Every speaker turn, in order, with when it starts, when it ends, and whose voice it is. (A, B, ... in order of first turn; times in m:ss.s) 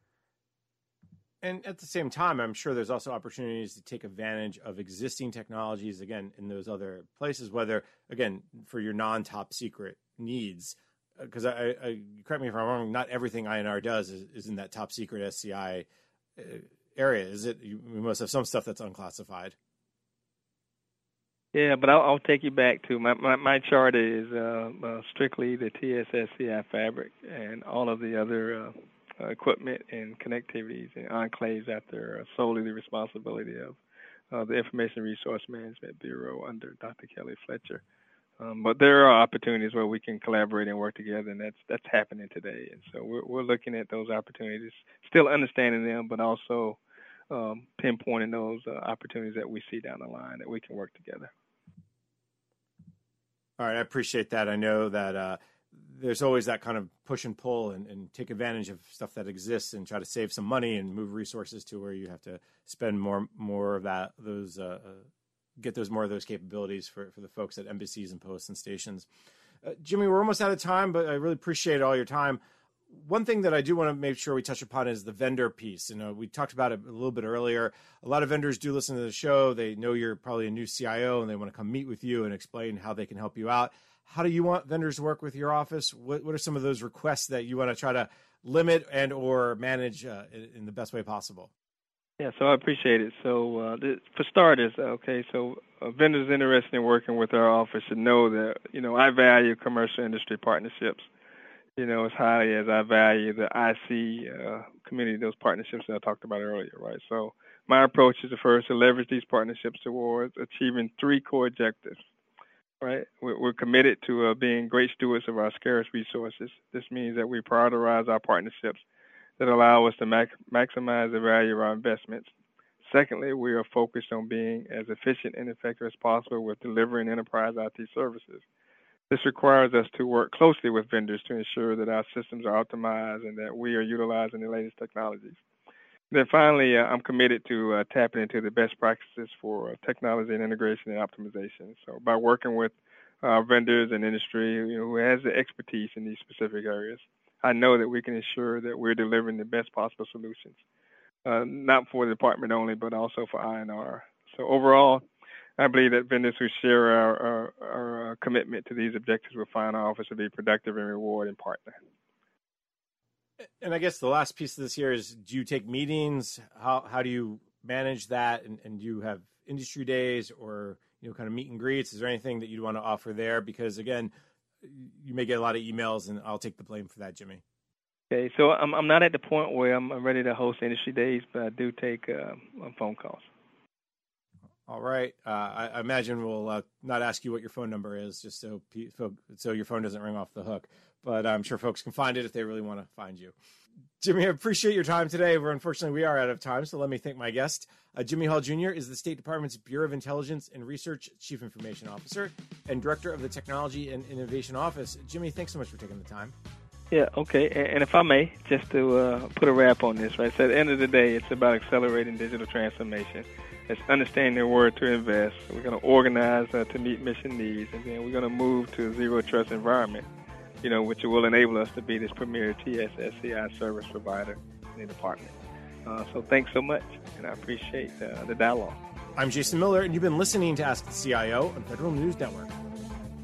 0:01.4-0:15.8 A
0:16.4-0:19.5 A
0:21.5-0:33.8 B
0:34.3-0:37.8 B
0:38.4-0:46.8 B
0:47.3-0:51.3 B
0:53.6-1:09.1 A
1:09.6-1:31.5 A
1:32.2-1:41.1 B
1:41.8-1:52.0 B
1:52.8-1:58.8 B
1:59.4-2:02.3 B
2:02.8-2:08.4 B
2:09.1-2:15.4 B
2:16.1-2:30.6 B
2:31.2-2:35.0 B
2:35.6-2:41.8 B
2:43.6-2:54.1 A
2:54.6-2:57.4 A
2:58.1-3:03.3 B
3:04.7-3:13.3 A
3:14.0-3:26.3 A
3:26.9-3:40.1 B
3:40.6-3:45.3 B
3:45.8-3:48.8 B
3:49.2-3:52.5 A